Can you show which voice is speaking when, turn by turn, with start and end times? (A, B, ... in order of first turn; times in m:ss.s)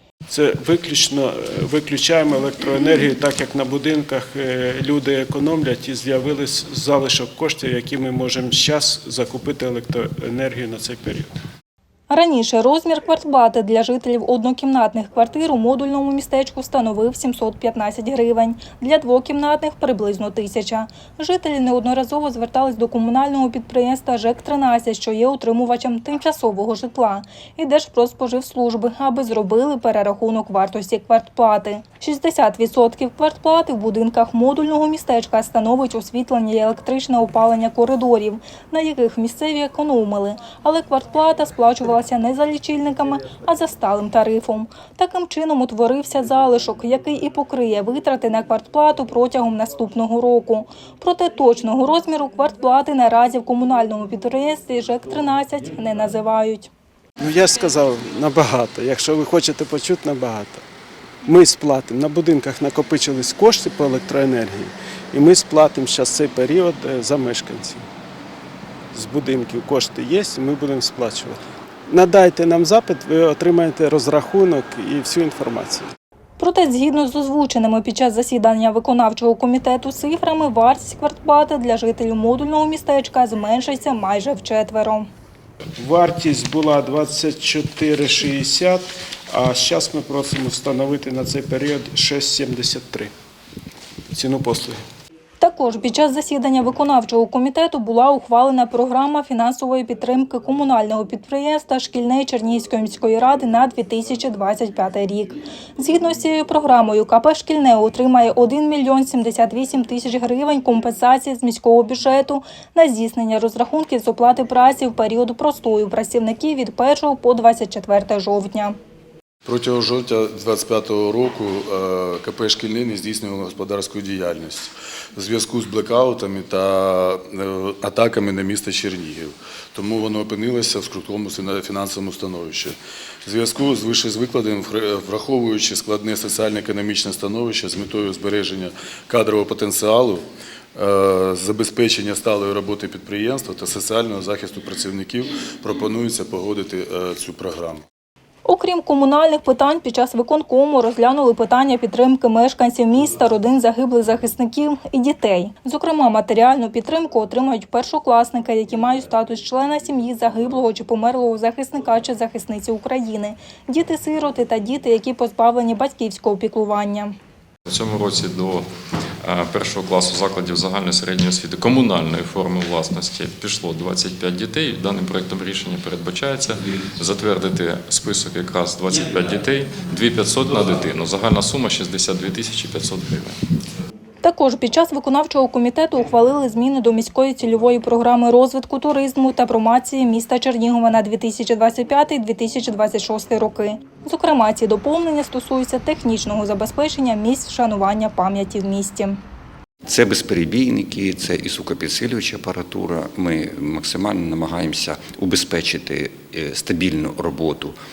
0:00.3-0:11.3 A
0:12.1-0:56.7 B
0:57.2-1:00.6 A
1:01.2-1:07.8 A
1:08.9-1:15.9 A
1:16.4-1:25.1 B
1:25.8-1:33.1 A
1:34.1-1:34.8 A
1:35.4-1:58.8 B
1:59.4-2:20.2 C
2:20.7-2:27.8 C
2:28.4-2:47.1 B
2:47.7-2:48.6 D
2:49.2-3:03.4 D
3:04.2-3:19.2 B
3:19.8-3:27.8 E